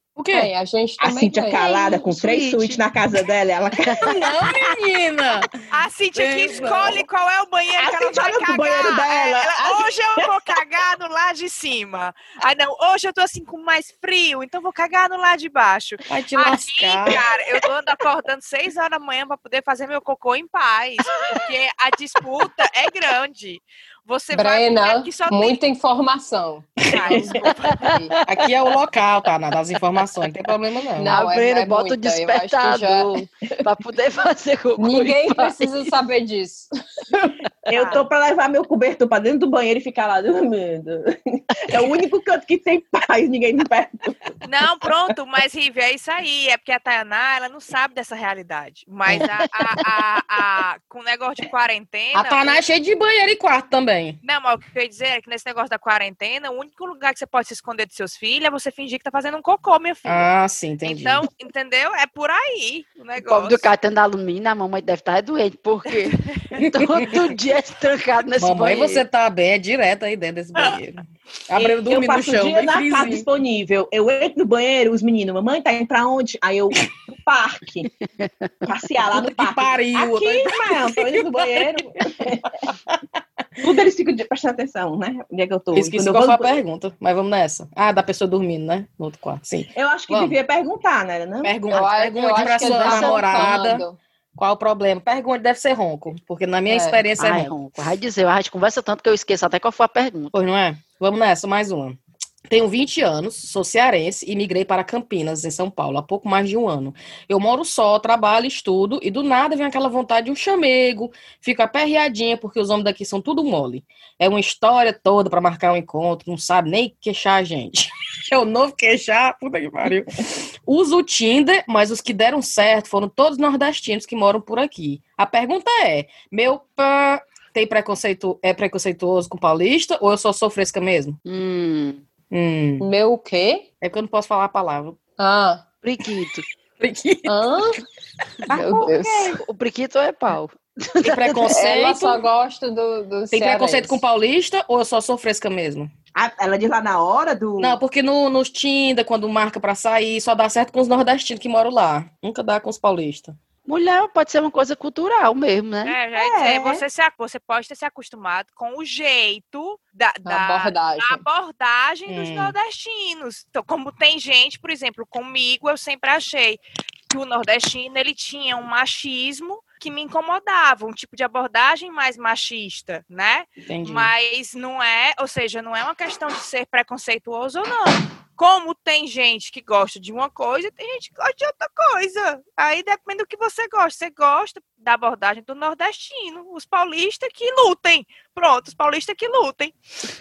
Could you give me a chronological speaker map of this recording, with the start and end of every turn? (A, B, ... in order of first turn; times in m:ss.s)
0:00.2-0:00.5 A
0:00.3-0:01.6 B
0:01.0-0:04.6 C
0:01.5-0:02.8 D
0:03.8-0:04.2 D
0:04.0-0:05.5 A
0:05.7-0:25.6 E
0:06.1-0:07.0 A
0:07.8-0:10.2 C
0:16.1-0:17.2 A
0:24.3-0:28.1 B
0:26.9-0:27.8 E
0:27.7-0:28.4 D
0:28.3-0:31.1 A
0:31.0-0:33.3 B
0:31.0-0:35.9 D
0:34.8-0:36.7 B
0:37.7-0:44.4 C
0:37.7-0:38.0 E
0:44.4-0:52.6 E
0:52.1-0:54.2 A
0:54.2-1:00.3 E
1:00.0-1:01.2 A
1:00.8-1:03.7 E
1:03.2-1:09.0 D
1:06.6-1:07.3 A
1:08.4-1:13.2 A
1:11.6-1:17.9 C
1:18.0-1:18.5 D
1:18.6-1:22.5 C
1:19.1-1:21.6 A
1:23.6-1:26.5 C
1:25.7-1:30.4 A
1:29.7-1:31.5 C
1:31.4-1:33.8 A
1:31.7-1:34.0 B
1:32.4-1:33.6 D
1:34.4-1:37.5 A
1:36.7-1:37.0 B
1:37.2-1:40.3 D
1:40.3-2:11.2 A
2:11.2-2:12.0 D
2:12.3-2:12.8 A
2:12.8-2:13.6 B
2:13.8-2:15.0 A
2:15.2-2:15.6 B
2:15.8-2:16.4 D
2:16.8-2:17.5 A
2:17.2-2:17.8 B
2:18.5-2:19.4 B
2:19.3-2:21.6 D
2:21.0-2:22.2 A
2:21.5-2:24.0 B
2:23.3-2:25.9 A
2:26.1-2:27.8 C
2:27.6-2:33.4 A
2:33.6-2:36.0 D
2:35.8-3:09.7 E
2:36.1-2:36.8 C
2:40.2-2:41.2 B
2:42.1-2:42.6 A
2:53.7-2:54.1 A